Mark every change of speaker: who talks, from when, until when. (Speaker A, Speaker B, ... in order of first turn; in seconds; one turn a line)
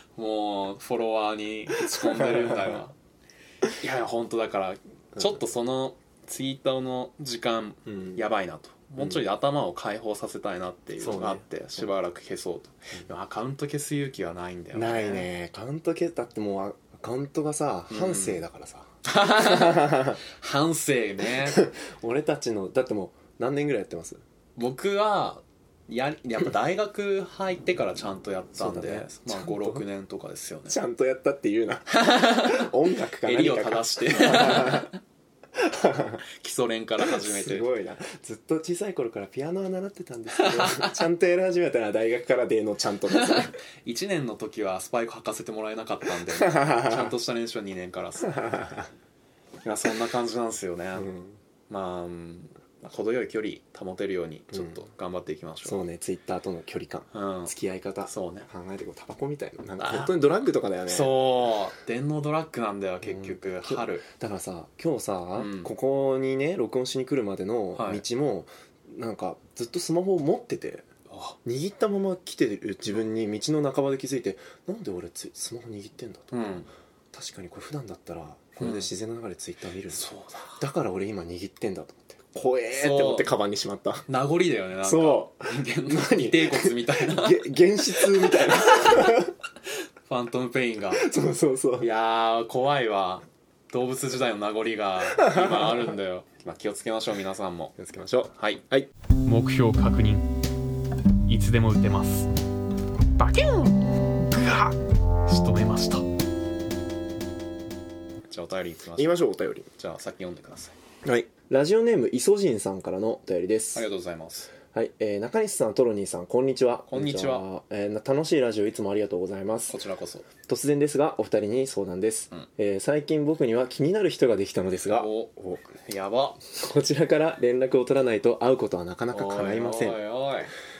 Speaker A: 0.1-2.9
Speaker B: 1.8-2.8
Speaker A: 3.7-15.3
Speaker B: 7.9-8.2
Speaker B: 11.0-11.4
Speaker B: 14.7-20.2
Speaker A: 17.9-18.4
Speaker A: 19.0-21.6
Speaker B: 21.3-24.2
Speaker A: 24.6-30.8
Speaker B: 28.6-29.8
Speaker B: 30.7-34.9
Speaker A: 31.9-35.0
Speaker B: 35.5-36.2
Speaker A: 36.2-37.7
Speaker B: 37.0-43.6
Speaker A: 40.3-41.0
Speaker A: 43.1-48.6
Speaker B: 46.4-47.1
Speaker B: 48.3-48.9
Speaker A: 49.6-51.1
Speaker B: 51.0-51.4
Speaker A: 51.7-55.8
Speaker B: 55.6-61.1
Speaker A: 57.1-57.5
Speaker A: 58.0-58.5
Speaker A: 59.8-60.1
Speaker A: 60.9-64.0
Speaker B: 63.0-70.8
Speaker A: 65.3-65.7
Speaker A: 67.7-68.0
Speaker A: 71.1-71.4
Speaker B: 71.4-76.5
Speaker A: 76.3-76.7
Speaker B: 77.1-84.0
Speaker A: 78.6-78.9
Speaker A: 79.9-80.6
Speaker A: 82.7-83.3
Speaker A: 84.1-89.2
Speaker B: 84.8-89.3
Speaker A: 90.1-91.1
Speaker B: 91.0-91.9
Speaker A: 91.8-97.7
Speaker B: 95.1-95.9
Speaker B: 97.8-98.9
Speaker A: 98.3-98.7
Speaker A: 99.2-100.3
Speaker A: 101.3-102.3
Speaker A: 103.2-106.0
Speaker A: 108.3-109.2
Speaker B: 109.0-109.7
Speaker A: 109.8-110.8
Speaker B: 111.0-113.9
Speaker A: 113.7-114.5
Speaker B: 114.7-119.8
Speaker A: 116.9-117.4
Speaker A: 119.7-120.3
Speaker B: 120.4-125.7
Speaker A: 124.9-126.4
Speaker B: 126.5-130.0
Speaker A: 129.1-130.5